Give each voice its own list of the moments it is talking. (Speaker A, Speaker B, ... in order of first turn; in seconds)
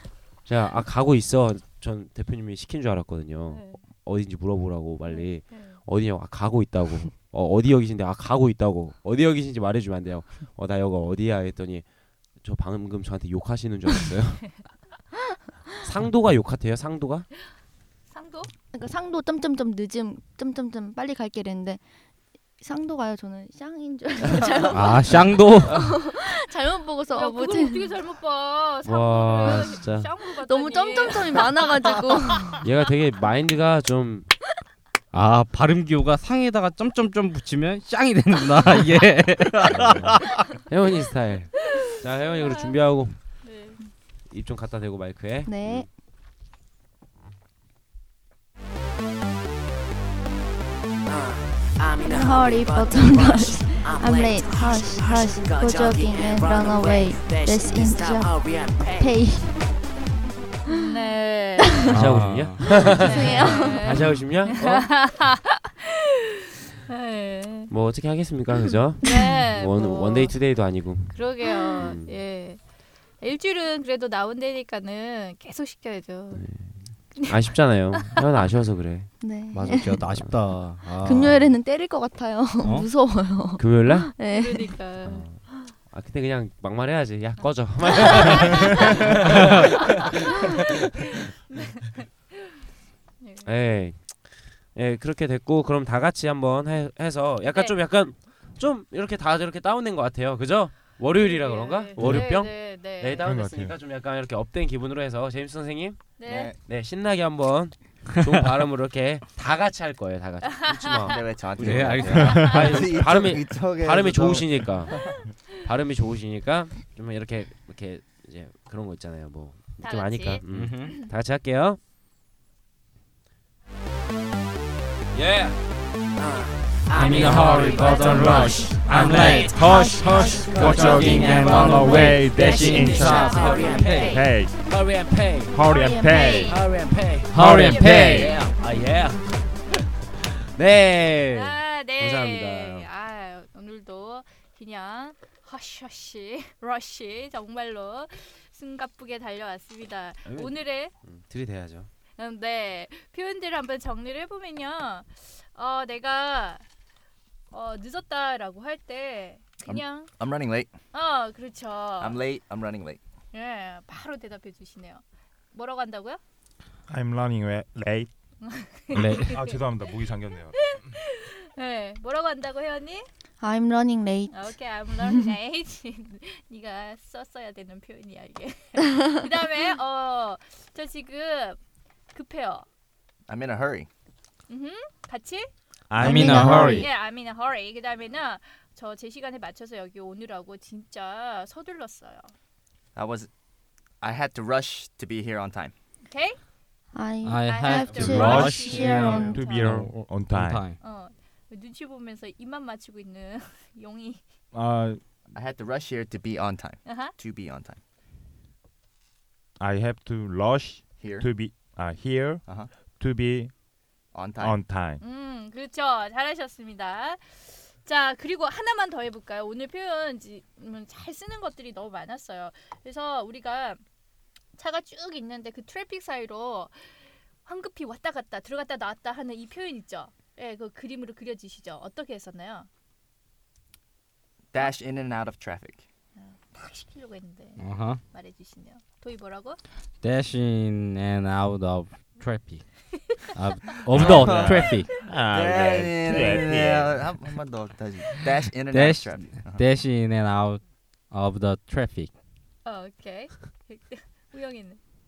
Speaker A: 0.4-14.7, 15.8-17.3, 28.8-30.1, 32.6-34.3, 39.6-43.2, 44.3-45.9, 61.9-65.1, 67.7-72.2, 76.3-79.1, 79.8-81.3, 83.6-84.1, 85.0-90.7, 93.4-106.1, 106.7-115.0, 115.6-121.8, 125.1-125.6, 130.2-131.0, 133.4-135.6, 136.5-142.9, 150.2-151.9
Speaker B: 3.5-3.8, 5.0-5.8, 18.1-18.5, 27.1-31.6, 42.2-42.8, 43.4-43.8, 60.7-61.9, 62.8-66.0, 66.9-67.7, 69.0-70.5, 71.1-72.6, 73.2-76.4, 77.2-77.5, 84.3-85.2, 91.5-92.0, 93.2-93.5, 97.5-97.8, 101.1-103.3, 106.2-106.5, 110.7-111.0, 119.8-121.1, 127.0-127.4, 132.9-134.2, 135.7-136.6, 137.4-138.4, 141.3-150.9, 152.2-156.6, 157.5-160.1, 160.9-162.2, 163.3-166.2, 168.4-169.6, 170.5-173.1, 174.3-181.6, 182.1-182.7, 184.5-185.5, 186.0-192.3, 196.1-196.4, 197.4-199.9, 200.8-204.2, 206.8-207.1, 215.0-223.8, 224.6-226.9, 227.4-232.7, 236.2-239.6, 252.6-254.8
Speaker C: 18.7-21.8, 22.6-27.9, 30.3-32.6, 45.5-45.9, 52.0-59.6, 62.8-64.1, 79.2-80.2, 81.0-85.5, 129.5-131.4, 135.7-136.4, 173.4-175.3, 186.0-186.8, 196.9-199.4
Speaker D: 24.7-25.9, 35.1-40.5, 61.9-62.7, 79.5-81.4, 82.6-82.9, 111.6-112.5, 120.5-121.0, 126.9-129.6, 130.5-134.2, 137.3-138.3, 168.9-169.4, 186.0-186.9, 197.2-200.8, 237.6-238.0, 240.0-244.9, 248.7-252.1
Speaker E: 51.1-59.1, 126.2-134.2
Speaker F: 103.2-103.7, 112.2-112.7, 127.5-134.5, 135.5-136.6, 137.3-138.4, 166.9-168.1, 168.9-170.6, 185.9-186.9, 197.9-200.6, 204.5-205.0, 209.6-213.5, 214.4-215.0, 243.9-247.0
Speaker G: 106.2-106.6, 111.0-115.0, 159.6-160.7, 162.0-163.0, 183.3-183.9, 192.9-193.3, 194.0-195.7, 205.3-207.8, 211.0-211.3, 212.4-212.7, 214.1-214.6, 234.5-235.8, 243.9-249.6